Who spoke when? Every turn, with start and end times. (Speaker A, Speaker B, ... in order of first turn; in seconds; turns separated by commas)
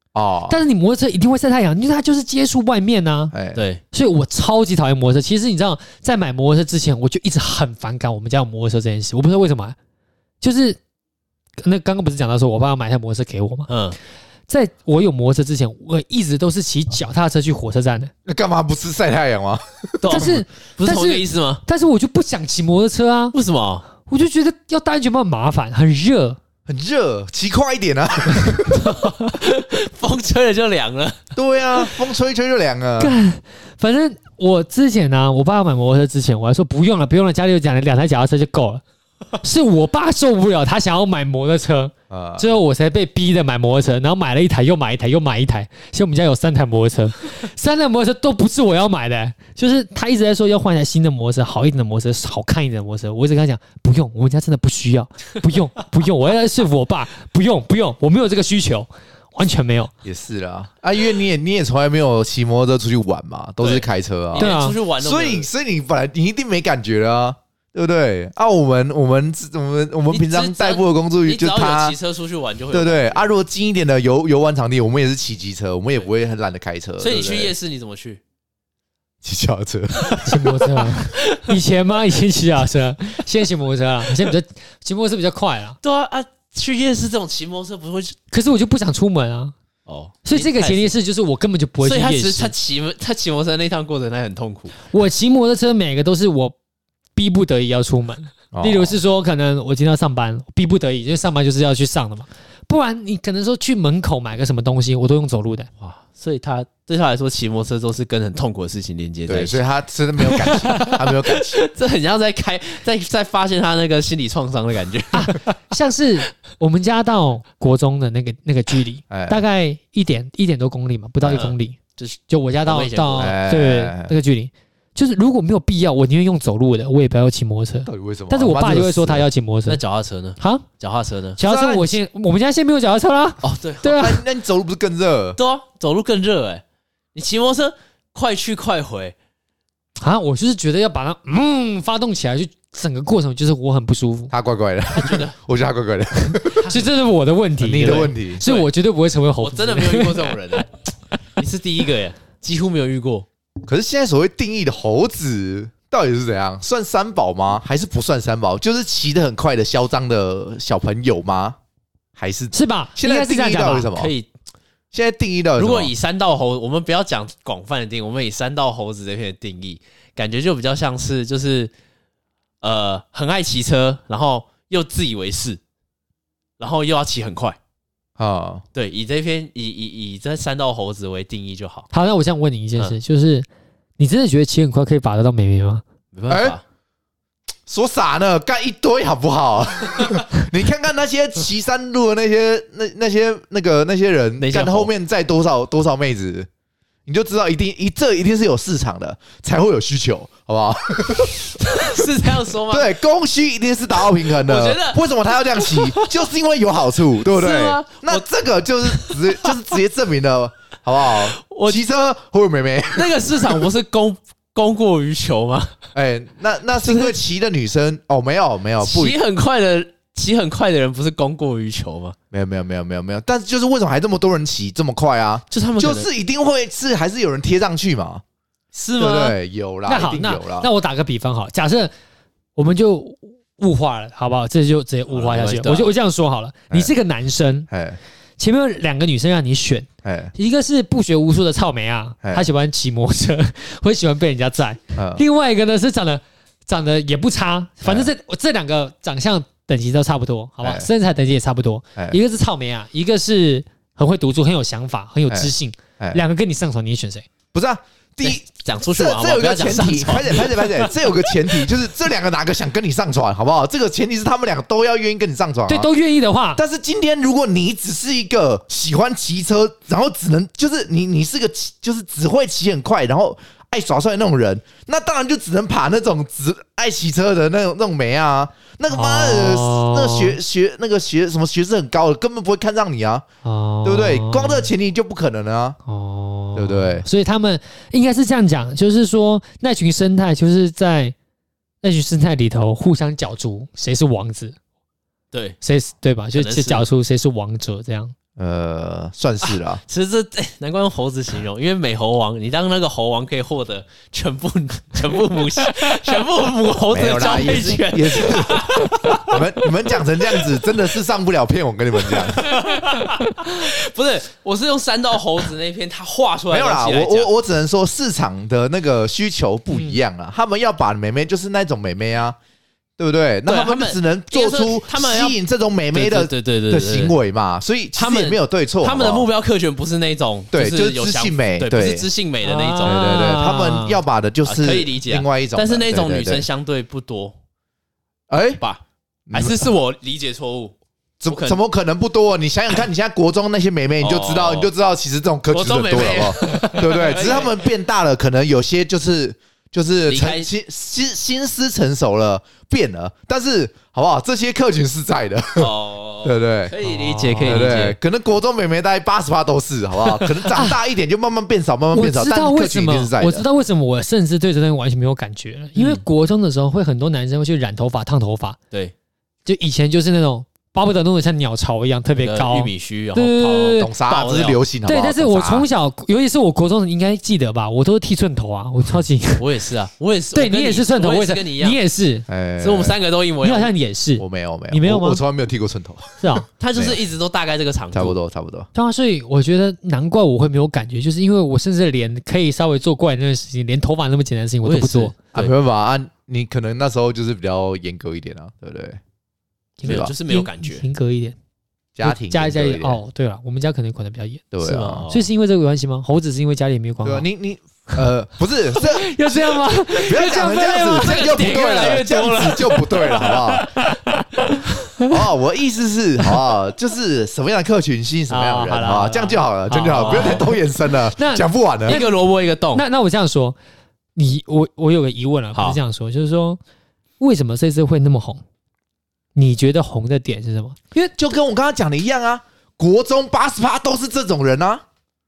Speaker A: 0.1-0.6, Speaker B: 0.5-3.4, Speaker A: 3.3-3.6, Speaker C: 3.5-3.8, Speaker B: 3.9-9.8, Speaker B: 10.4-10.8, Speaker B: 11.6-13.7, Speaker C: 13.7-14.0, Speaker B: 14.5-18.1, Speaker A: 18.3-20.4, Speaker C: 20.0-21.6, Speaker B: 20.1-23.4, Speaker C: 23.3-23.9, Speaker B: 24.1-26.4, Speaker A: 26.7-28.9, Speaker C: 28.7-31.2, Speaker A: 31.4-33.2, Speaker B: 33.0-38.8, Speaker B: 39.4-59.9, Speaker A: 42.1-42.5, Speaker A: 60.0-72.0, Speaker C: 63.6-65.5, Speaker B: 64.4-64.8, Speaker C: 70.1-73.3, Speaker A: 72.7-77.5, Speaker C: 77.0-78.2, Speaker A: 79.2-80.7, Speaker B: 80.2-85.8, Speaker C: 85.8-88.2, Speaker B: 88.3-89.5, Speaker C: 89.9-90.9, Speaker B: 90.2-92.5, Speaker C: 91.8-94.7, Speaker B: 94.9-96.6, Speaker B: 97.2-105.7, Speaker A: 98.5-99.0, Speaker C: 105.8-109.6, Speaker A: 109.3-111.6, Speaker C: 110.3-115.4, Speaker B: 115.1-129.8, Speaker A: 119.1-119.4, Speaker C: 121.2-123.4, Speaker A: 123.2-124.1, Speaker A: 127.9-129.3, Speaker C: 129.7-131.4, Speaker B: 130.4-130.7, Speaker B: 131.4-134.2, Speaker A: 131.4-132.0, Speaker C: 133.4-134.2, Speaker A: 133.9-135.4, Speaker C: 135.4-136.6, Speaker C: 137.2-139.2, Speaker B: 140.0-144.3, Speaker A: 144.3-146.7, Speaker C: 144.9-145.3, Speaker C: 146.6-146.9, Speaker B: 146.7-150.4, Speaker A: 147.6-148.4, Speaker C: 147.8-148.7, Speaker C: 149.4-150.7, Speaker C: 151.4-153.3, Speaker A: 153.6-161.6, Speaker A: 162.2-164.1, Speaker B: 162.5-163.9, Speaker C: 163.9-164.3, Speaker A: 164.9-165.9, Speaker C: 165.6-171.7, Speaker C: 172.6-175.6, Speaker C: 176.6-177.6, Speaker A: 178.2-178.6, Speaker C: 178.7-181.9, Speaker B: 181.9-183.5, Speaker B: 184.0-185.8, Speaker C: 186.1-186.6, Speaker A: 186.3-186.6, Speaker A: 187.7-196.5, Speaker C: 194.4-194.9, Speaker A: 197.1-213.6, Speaker C: 201.6-202.9, Speaker C: 204.0-206.2, Speaker C: 207.3-208.3, Speaker C: 208.8-209.6, Speaker C: 211.2-211.8, Speaker C: 212.9-215.7, Speaker A: 215.9-219.2, Speaker C: 216.8-217.2, Speaker C: 218.8-222.2, Speaker A: 222.3-228.2, Speaker C: 225.5-226.1, Speaker C: 228.8-229.4, Speaker A: 229.0-230.7, Speaker B: 229.9-231.9, Speaker B: 232.6-237.7, Speaker C: 235.2-235.9, Speaker A: 237.7-238.0, Speaker B: 238.4-257.3, Speaker A: 240.0-240.3, Speaker A: 245.0-245.2, Speaker A: 247.8-248.1, Speaker A: 250.6-250.9, Speaker A: 255.3-256.2, Speaker A: 257.5-265.9, Speaker C: 258.2-261.0, Speaker B: 265.7-266.6, Speaker A: 266.6-283.2, Speaker B: 278.9-280.4, Speaker B: 283.4-284.7, Speaker A: 283.8-285.8, Speaker B: 285.9-291.1, Speaker A: 286.6-287.1, Speaker B: 291.8-294.6, Speaker C: 295.3-295.6, Speaker B: 295.6-298.1, Speaker C: 296.4-296.9, Speaker A: 298.4-299.8, Speaker C: 299.9-310.6, Speaker A: 306.9-312.6, Speaker C: 312.1-317.3, Speaker B: 312.9-313.4, Speaker A: 316.5-322.4, Speaker B: 319.7-320.0, Speaker A: 323.0-329.3, Speaker C: 323.5-325.4, Speaker C: 325.9-327.1, Speaker C: 328.0-337.4, Speaker A: 330.5-332.1, Speaker B: 332.4-333.9, Speaker A: 332.8-336.5, Speaker A: 338.3-338.6, Speaker A: 339.3-339.7, Speaker C: 339.3-340.8, Speaker A: 341.2-355.7, Speaker C: 341.3-341.6, Speaker C: 344.0-344.7, Speaker C: 345.5-347.7, Speaker C: 350.1-350.5, Speaker C: 355.6-358.0, Speaker A: 356.2-356.7, Speaker B: 356.8-357.8, Speaker A: 357.4-363.5, Speaker B: 360.5-360.8, Speaker B: 361.9-368.6, Speaker C: 365.8-366.0, Speaker B: 369.5-373.9, Speaker C: 372.2-374.6, Speaker A: 373.8-375.7, Speaker B: 374.9-379.5, Speaker C: 379.4-381.8, Speaker B: 380.4-382.3, Speaker A: 382.3-383.0, Speaker C: 382.6-383.7, Speaker B: 383.4-385.2, Speaker A: 384.2-387.0, Speaker B: 386.2-386.5, Speaker C: 386.6-388.2, Speaker A: 387.9-388.7, Speaker B: 388.7-395.1, Speaker C: 394.6-395.5, Speaker A: 395.4-399.0, Speaker B: 399.8-401.4, Speaker C: 399.8-400.8, Speaker A: 399.9-400.1, Speaker A: 402.0-403.0, Speaker B: 402.0-404.5, Speaker A: 404.5-405.1, Speaker C: 404.6-405.3, Speaker B: 405.1-407.3, Speaker A: 407.1-413.7, Speaker B: 408.7-411.9, Speaker C: 410.9-412.8, Speaker B: 412.6-415.1, Speaker A: 415.1-422.0, Speaker B: 418.3-420.6, Speaker C: 419.8-420.6, Speaker B: 421.1-422.1, Speaker C: 421.9-422.8, Speaker B: 422.7-423.6, Speaker B: 424.2-426.6, Speaker B: 427.2-428.4, Speaker B: 429.4-431.1, Speaker A: 431.2-434.8